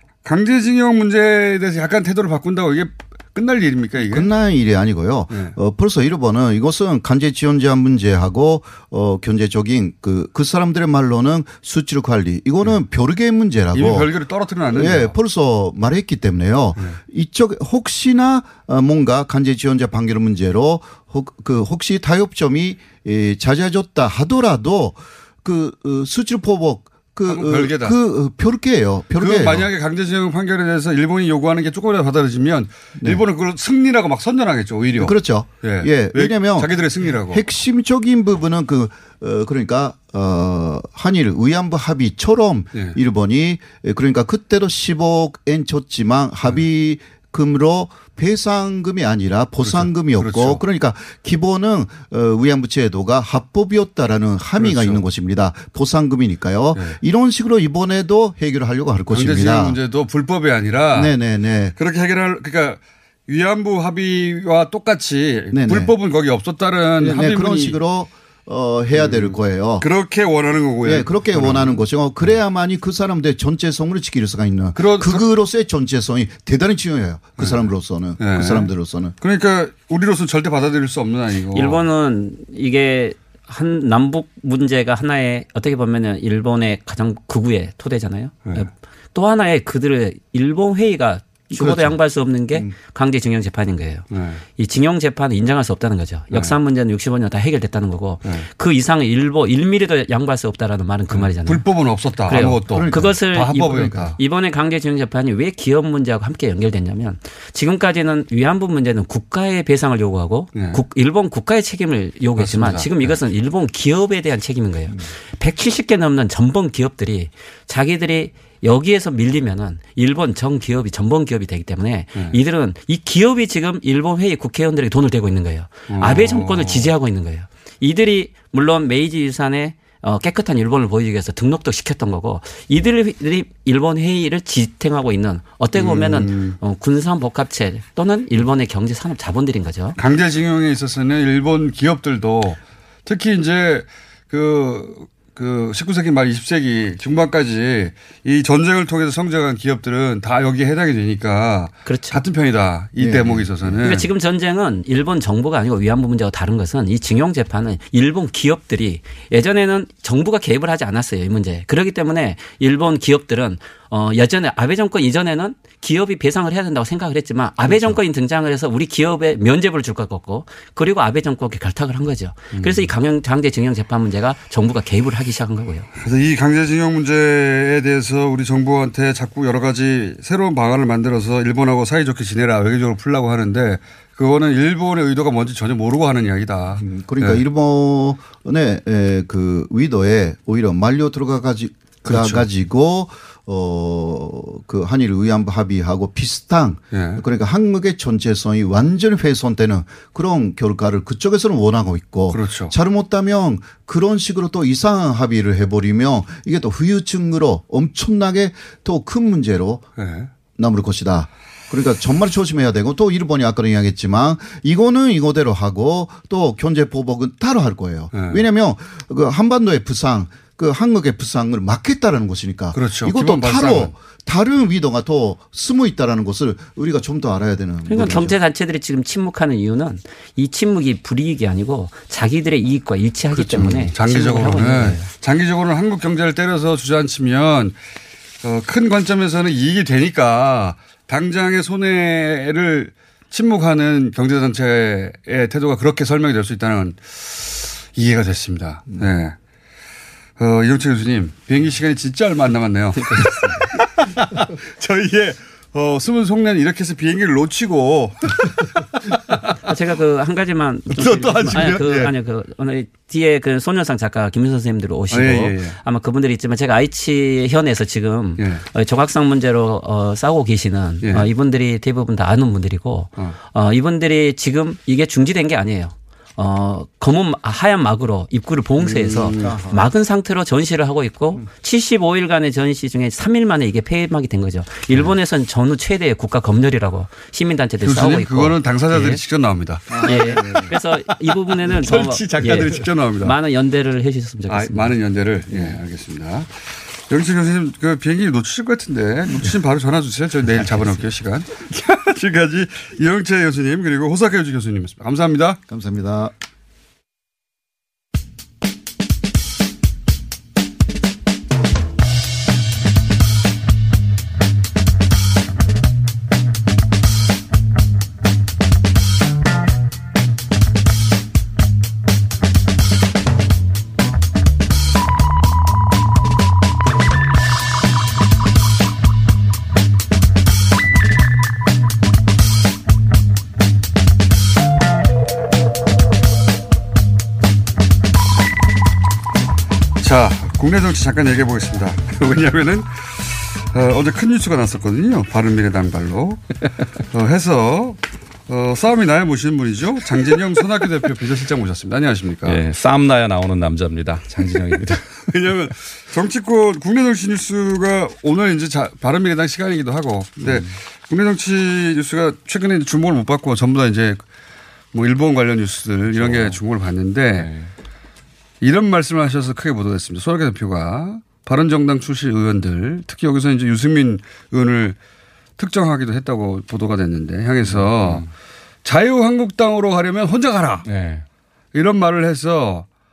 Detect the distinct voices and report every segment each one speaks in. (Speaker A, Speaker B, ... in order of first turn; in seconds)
Speaker A: 0.2-4.3, 5.3-5.5, 13.7-15.1, 27.2-27.9, 29.2-37.4, 49.6-50.6, 54.6-55.0, 59.1-61.1, 61.8-67.8, 68.9-72.4, 74.8-75.2, 77.4-81.8, 94.1-94.4, 101.1-104.2, 110.5-110.8, 112.4-113.2, 125.9-126.9, 135.8-136.6, 140.0-154.1, 167.7-168.0, 172.5-172.9, 176.0-187.4, 192.0-192.5, 196.9-197.2, 202.3-202.7, 210.0-210.3, 218.1-218.4, 222.7-223.9, 233.3-237.8, 238.4-249.3, 250.4-258.6, 259.1-259.4, 260.9-262.1, 265.1-265.8, 268.4-268.6, 271.0-271.3, 278.8-279.6, 287.8-290.7, 291.6-293.4, 294.5-305.6, 340.0-346.5, 347.1-352.6, 355.3-364.2, 364.9-367.5, 368.6-375.0, 375.6-378.3, 378.9-380.9, 381.7-382.9
Speaker B: 4.0-14.1, 14.7-29.7, 35.0-59.8, 60.9-61.8, 65.5-65.9, 67.0-69.9, 70.8-79.1, 91.5-92.0, 102.6-104.1, 153.0-153.9, 186.8-209.9, 210.6-228.4, 279.2-279.8, 290.0-290.6, 305.7-306.3
Speaker C: 81.5-101.6, 102.3-140.0, 151.9-152.2, 153.8-175.9, 227.9-235.0, 259.6-289.2, 290.0-294.9, 295.5-295.8
Speaker D: 352.4-355.3, 360.4-360.7, 366.1-366.6, 367.3-367.7, 377.6-378.3, 380.8-381.2